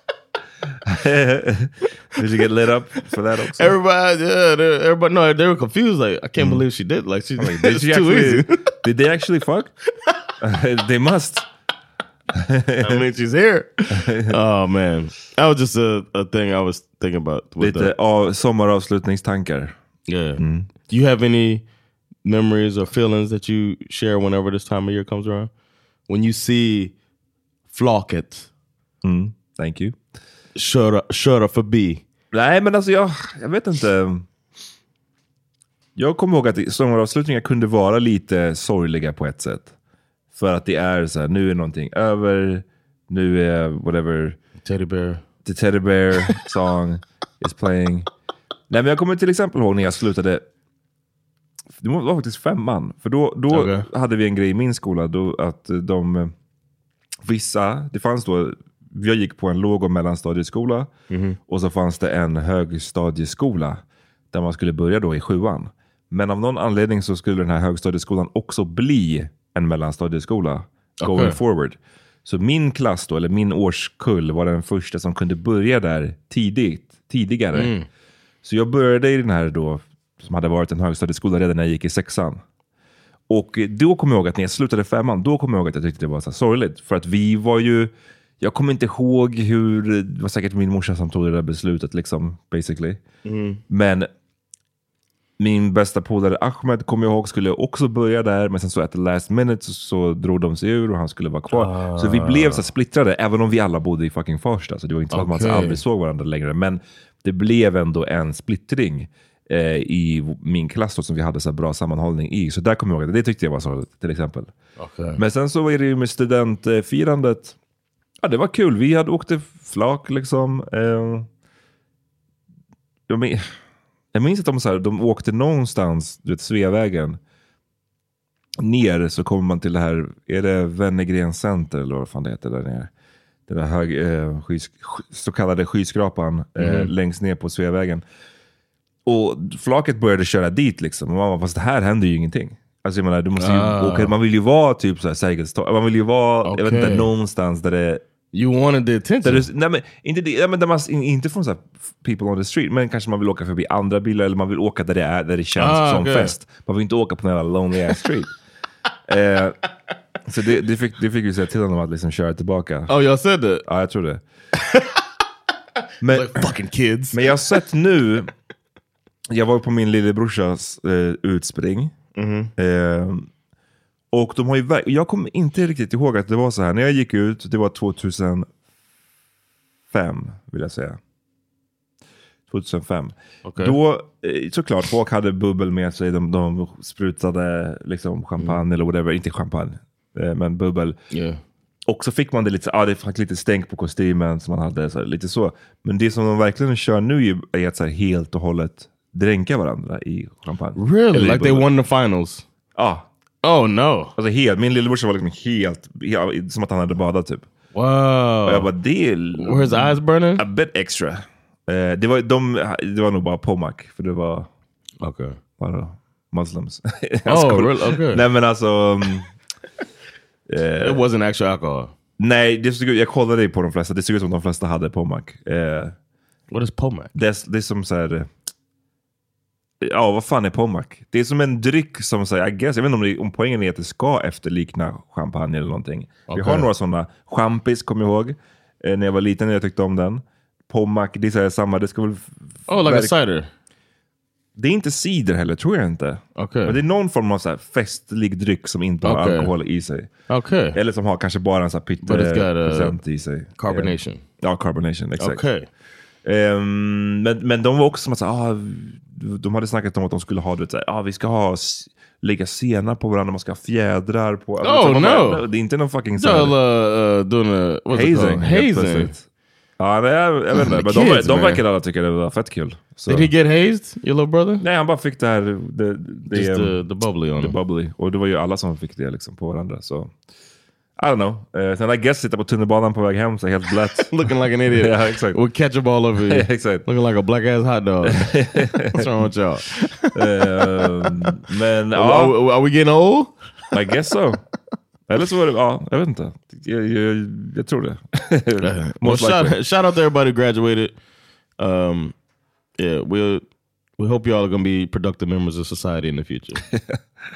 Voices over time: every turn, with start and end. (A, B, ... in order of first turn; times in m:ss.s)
0:00.8-0:03.7 A
0:03.5-0:08.7 B
0:06.4-0:06.6 A
0:07.4-0:09.7 A
0:10.4-0:11.5 A
0:12.4-0:13.0 A
0:12.8-0:17.9 B
0:14.0-0:14.3 A
0:17.6-0:19.8 A
0:20.1-0:21.6 B
0:20.4-0:20.7 A
0:22.2-0:25.5 B
0:26.1-0:26.9 B
0:27.7-0:28.5 B
0:29.0-0:30.0 A
0:30.6-0:32.0 B
0:32.3-0:34.3 A
0:36.0-0:39.7 A
0:40.3-0:44.4 A
0:44.6-0:45.2 B
0:45.4-0:48.1 A
0:48.7-0:50.4 A
0:51.8-0:56.3 A
0:53.5-0:53.9 B
0:57.2-1:00.9 A
1:01.1-1:01.4 B
1:01.5-1:17.7 A
1:11.0-1:11.4 B
1:17.5-1:17.9 B
1:18.4-1:22.4 A
1:23.3-1:33.0 A
1:33.2-1:33.6 B
1:33.7-1:34.1 A
1:35.4-1:54.5 A
1:41.5-1:42.6 B
1:45.1-1:45.8 B
1:54.8-1:55.2 B
1:55.2-1:57.6 A
1:58.2-2:01.3 A
2:03.1-2:03.5 A
2:04.1-2:07.2 A
2:08.6-2:12.9 A
2:13.5-2:18.0 A
2:16.6-2:16.9 B
2:19.0-2:28.0 A
2:23.4-2:24.1 B
2:26.4-2:27.1 B
2:28.3-2:29.4 B
2:29.2-2:38.3 A
2:35.5-2:36.4 B
2:39.1-2:39.6 A
2:40.2-2:42.9 A
2:42.9-2:43.6 B
2:43.6-2:44.2 A
2:44.6-2:45.0 B
2:46.0-2:46.5 A
2:46.0-2:47.6 B
2:47.1-2:48.3 A
2:49.3-2:51.9 A
2:52.1-2:52.5 B
2:52.6-2:53.3 A
2:54.1-2:58.5 A
2:59.9-3:01.0 A
3:02.5-3:11.0 A
3:03.4-3:03.8 B
3:11.1-3:11.4 B
3:11.9-3:21.7 A
3:20.8-3:22.4 B
3:22.8-3:23.1 A
3:23.4-3:24.2 B
3:24.2-3:27.4 A
3:27.7-3:28.7 B
3:28.4-3:34.5 A
3:29.4-3:30.4 B
3:35.0-3:35.4 B
3:35.6-3:39.3 A
3:37.3-3:38.2 B
3:40.5-3:41.0 A
3:40.8-3:41.9 B
3:42.2-3:46.0 A
3:46.5-3:47.1 B
3:47.1-3:48.3 A
3:49.8-4:03.1 A
3:56.3-3:56.7 B
4:02.7-4:03.5 B
4:04.6-4:10.1 A
4:06.4-4:06.8 B
4:09.0-4:09.5 B
4:10.3-4:10.8 B
4:10.7-4:15.4 A
4:12.0-4:13.0 B
4:13.5-4:14.2 B
4:15.2-4:15.7 B
4:16.2-4:26.5 A
4:24.6-4:25.5 B
4:26.2-4:29.1 B
4:27.9-4:29.2 A
4:29.8-4:33.3 A
4:30.5-4:31.6 B
4:33.1-4:34.6 B
4:34.6-4:36.8 A
4:36.3-4:37.6 B
4:37.4-4:40.1 A
4:41.0-4:44.1 A
4:44.0-4:51.3 B
4:44.7-4:45.4 A
4:46.3-4:46.8 A
4:48.0-4:49.1 A
4:50.1-4:52.3 A
4:51.9-4:53.8 B
4:53.7-4:54.4 A
4:55.1-4:59.6 A
4:58.6-5:00.9 B
5:01.6-5:02.1 B
5:02.8-5:03.4 B
5:04.0-5:06.6 B
5:06.7-5:07.0 A